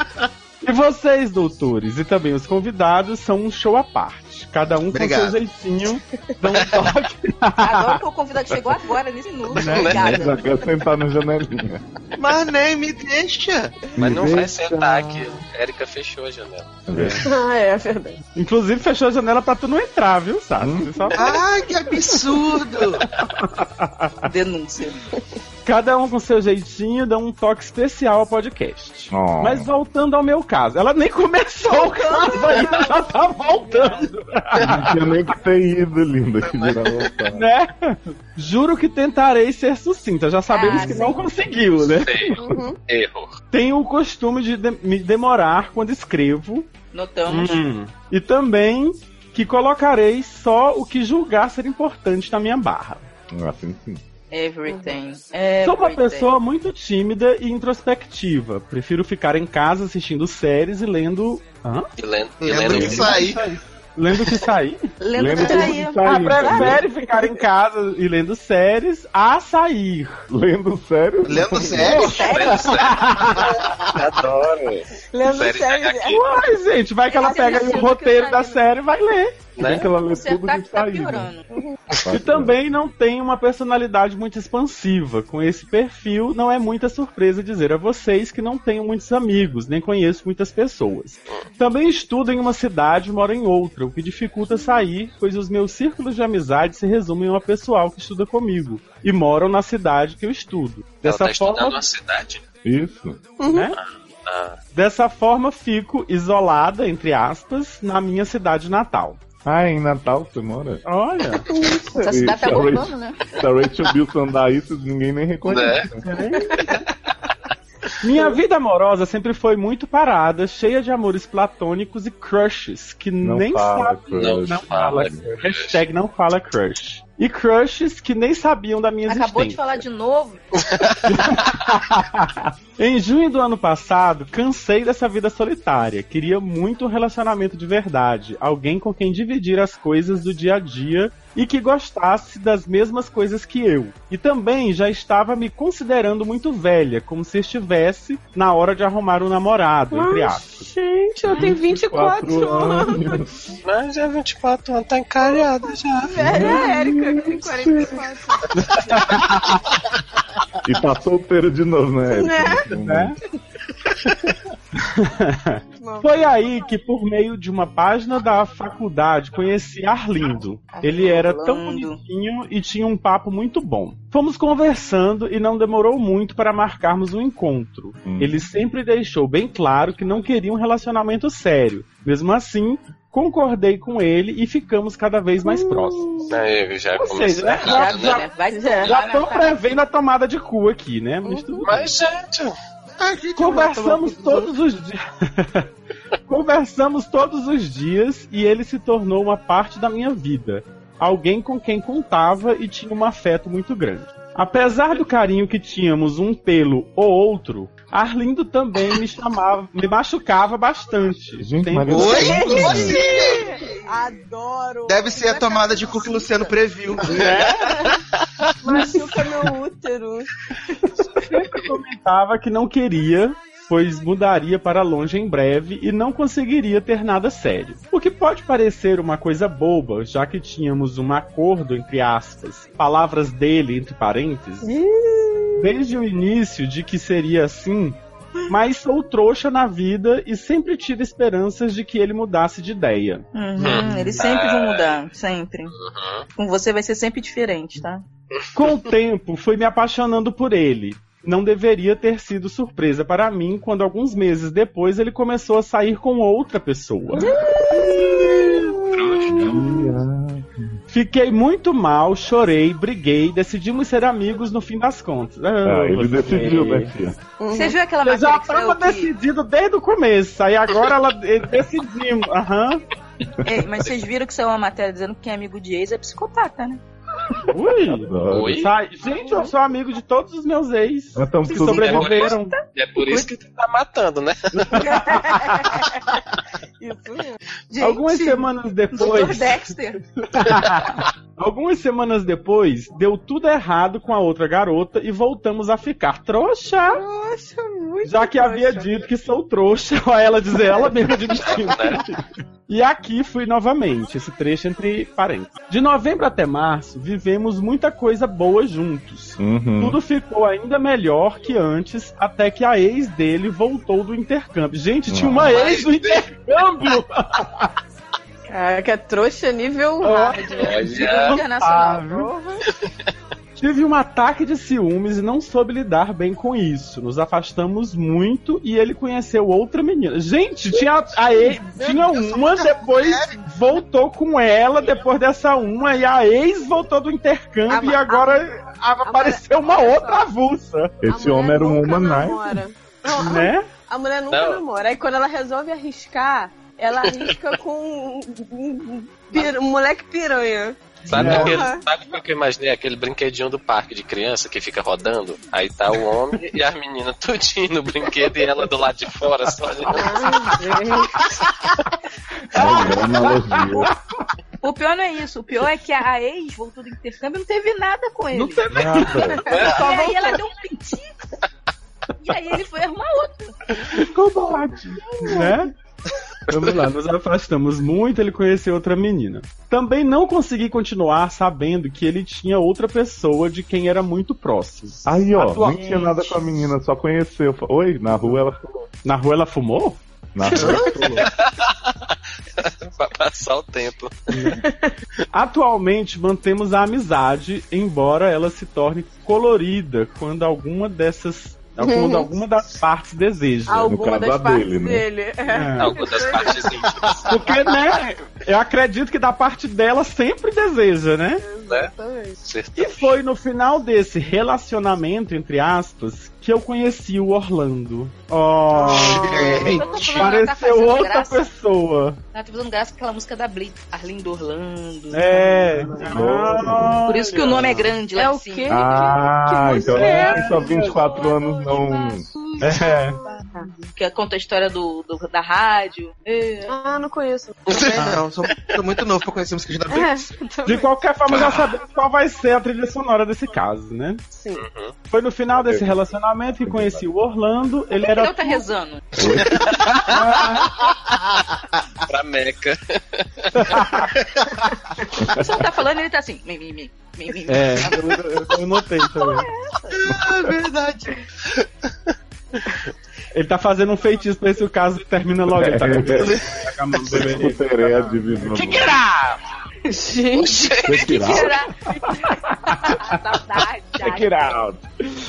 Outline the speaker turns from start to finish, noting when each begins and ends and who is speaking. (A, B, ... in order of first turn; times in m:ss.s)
0:00.6-0:08.0 A
0:04.9-0:05.4 B
0:07.6-0:10.6 C
0:09.5-0:10.0 A
0:09.7-0:10.2 D
0:09.8-0:11.8 E
0:12.2-0:13.8 B
0:14.0-0:15.4 E
0:14.0-0:16.7 D
0:16.9-0:17.3 E
0:16.9-0:17.2 A
0:17.2-0:18.2 F
0:18.3-0:21.4 A
0:20.6-0:20.9 E
0:21.1-0:23.0 B
0:23.2-0:24.2 A
0:24.2-0:25.0 C
0:25.6-0:35.0 A
0:29.1-0:29.7 E
0:32.2-0:32.7 C
0:32.6-0:34.1 F
0:34.6-0:37.4 E
0:36.4-0:37.1 D
0:37.3-0:42.5 A
0:40.5-0:41.2 C
0:42.0-0:43.3 D
0:42.4-0:42.8 F
0:43.5-0:46.7 A
0:46.9-0:47.6 C
0:47.3-0:53.1 A
0:53.3-0:54.0 E
0:54.3-0:56.3 C
0:54.7-0:55.0 F
0:55.6-1:01.9 A
1:02.0-1:03.3 D
1:02.4-1:03.5 B
1:02.7-1:03.1 E
1:02.7-1:04.9 A
1:05.0-1:06.6 C
1:05.1-1:06.8 E
1:05.4-1:05.7 F
1:05.4-1:10.2 A
1:06.4-1:07.4 F
1:10.3-1:12.1 E
1:11.2-1:12.4 B
1:11.8-1:13.6 A
1:12.0-1:12.9 C
1:12.1-1:16.2 D
1:15.1-1:16.2 F
1:16.1-1:19.4 A
1:17.1-1:18.0 C
1:17.2-1:18.6 F
1:19.6-1:19.9 D
1:19.6-1:21.3 E
1:20.0-1:21.4 C
1:21.5-1:21.8 F
1:22.0-1:22.6 E
1:22.1-1:41.8 A
1:41.0-1:42.4 D
1:42.6-1:43.2 E
1:43.4-1:43.7 F
1:43.5-1:43.8 A
1:43.8-1:44.6 D
1:44.7-1:49.2 A
1:49.4-1:50.8 E
1:50.8-1:51.5 A
1:51.5-1:52.2 F
1:52.0-1:53.2 C
1:52.0-1:56.0 E
1:55.4-1:55.9 D
1:56.0-1:56.8 A
1:56.3-1:56.7 F
1:58.0-2:09.7 A
2:03.2-2:05.2 E
2:04.1-2:05.8 D
2:09.1-2:10.4 C
2:11.0-2:30.7 A
2:29.9-2:33.2 F
2:31.3-2:33.3 E
2:33.6-2:36.5 D
2:36.0-2:38.5 F
2:36.2-2:37.9 E
2:36.3-2:36.7 A
2:38.9-2:39.6 A
2:40.6-2:43.2 E
2:42.1-2:42.7 F
2:42.7-2:43.2 A
2:44.8-3:06.3 A
2:45.8-2:46.2 F
2:50.7-2:52.0 C
2:58.0-2:58.4 E
3:05.4-3:06.3 F
3:06.3-3:08.2 D
3:06.9-3:08.2 A
3:07.6-3:09.6 C
3:08.5-3:08.9 F
3:08.8-3:11.9 A
3:11.2-3:11.6 F
3:11.6-3:12.6 D
3:13.0-3:14.5 B
3:13.4-3:15.7 A
3:16.3-3:32.4 A
3:31.4-3:33.0 E
3:31.9-3:33.6 B
3:32.1-3:38.0 F
3:34.9-3:37.5 B
3:37.0-3:37.7 A
3:38.6-3:40.3 F
3:41.2-3:54.7 A
3:54.6-3:55.7 F
3:55.6-3:58.0 A
3:58.5-4:04.2 A
4:03.3-4:05.7 C
4:03.6-4:04.9 D
4:05.8-4:06.2 D
4:06.4-4:08.0 C
4:08.5-4:18.7 A
4:17.2-4:17.4 E
4:17.2-4:19.7 F
4:18.9-4:19.4 D
4:19.3-4:20.8 E
4:20.9-4:26.9 A
4:25.6-4:27.2 E
4:27.4-4:27.8 F
4:27.5-4:29.1 C
4:28.0-4:32.8 A
4:33.4-4:36.8 C
4:37.5-4:42.6 A
4:37.9-4:38.7 E
4:38.3-4:38.7 D
4:39.2-4:39.5 F
4:41.2-4:42.3 E
4:41.7-4:44.8 D
4:44.6-4:45.8 A
4:44.8-4:45.7 C
4:46.8-4:47.4 F
4:47.7-4:50.0 C
4:47.8-4:49.7 A
4:50.3-4:57.0 A
4:56.9-4:59.1 F
4:58.0-5:17.7 A
5:00.5-5:01.1 F
5:01.4-5:02.0 D
5:09.4-5:10.0 E
5:15.1-5:15.6 E
5:15.5-5:16.2 D
5:18.5-5:20.9 F
5:20.0-5:22.3 A
5:20.6-5:21.4 D
5:20.7-5:22.3 C
5:23.6-5:41.0 A
5:31.9-5:33.4 B
5:37.7-5:38.5 F
5:39.0-5:40.3 F
5:41.0-5:42.6 E
5:41.1-5:51.8 F
5:43.2-5:43.7 A
5:44.3-5:44.6 D
5:51.1-5:51.6 A
5:51.1-6:00.3 D
5:51.1-5:51.5 E
5:59.9-6:01.4 F
6:02.5-6:03.9 A
6:02.5-6:03.9 E
6:04.6-6:08.7 C
6:08.3-6:09.4 A
6:08.7-6:09.4 E
6:09.3-6:10.4 F
6:09.5-6:09.9 D
6:09.6-6:11.2 C
6:12.2-6:13.8 C
6:14.0-6:15.5 E
6:15.3-6:15.7 A
6:16.5-6:26.3 A
6:25.0-6:28.9 E
6:28.1-6:28.4 A
6:29.0-6:31.2 A
6:30.3-6:31.3 E
6:30.5-6:30.9 F
6:31.3-6:31.6 D
6:32.6-6:34.1 D
6:34.3-6:34.6 A
6:34.5-6:34.9 F
6:35.3-6:43.9 A
6:41.8-6:42.3 F
6:43.7-6:46.9 F
6:43.8-6:45.0 E
6:45.5-6:46.0 A
6:45.8-6:47.4 D
6:47.2-6:51.4 A
6:51.4-6:52.4 F
6:52.4-6:53.1 D
6:52.8-7:02.2 A
6:58.8-7:00.1 F
6:58.8-7:00.3 B
6:59.7-7:01.4 C
7:02.3-7:05.9 C
7:05.1-7:07.9 A
7:05.8-7:06.6 F
7:06.1-7:07.0 E
7:07.0-7:09.0 C
7:08.1-7:11.4 F
7:08.7-7:12.2 E
7:09.7-7:10.9 A
7:12.2-7:12.9 C
7:12.6-7:13.2 A
7:12.7-7:13.7 F
7:13.4-7:16.7 C
7:16.6-7:18.1 F
7:17.7-7:18.0 D
7:17.8-7:20.2 B
7:19.9-7:20.9 F
7:20.6-7:24.2 A
7:21.3-7:21.7 D
7:24.3-7:24.6 F
7:24.6-7:24.9 D
7:25.1-7:28.6 A
7:25.5-7:25.9 E
7:26.6-7:27.0 E
7:28.0-7:29.3 C
7:29.2-7:30.1 E
7:29.6-7:30.0 D
7:29.9-7:30.8 A
7:32.1-7:33.9 D
7:33.5-7:34.1 A
7:35.2-7:35.5 E
7:35.3-7:38.1 C
7:37.5-7:39.5 A
7:39.9-7:41.2 B
7:40.1-7:40.4 E
7:43.3-7:49.3 A
7:45.5-7:46.4 E
7:47.1-7:49.0 E
7:49.9-7:50.9 F
7:50.3-7:51.4 D
7:50.8-7:51.6 E
7:51.1-7:51.8 C
7:52.8-7:53.1 A
7:52.8-7:54.5 C
7:54.0-7:54.8 E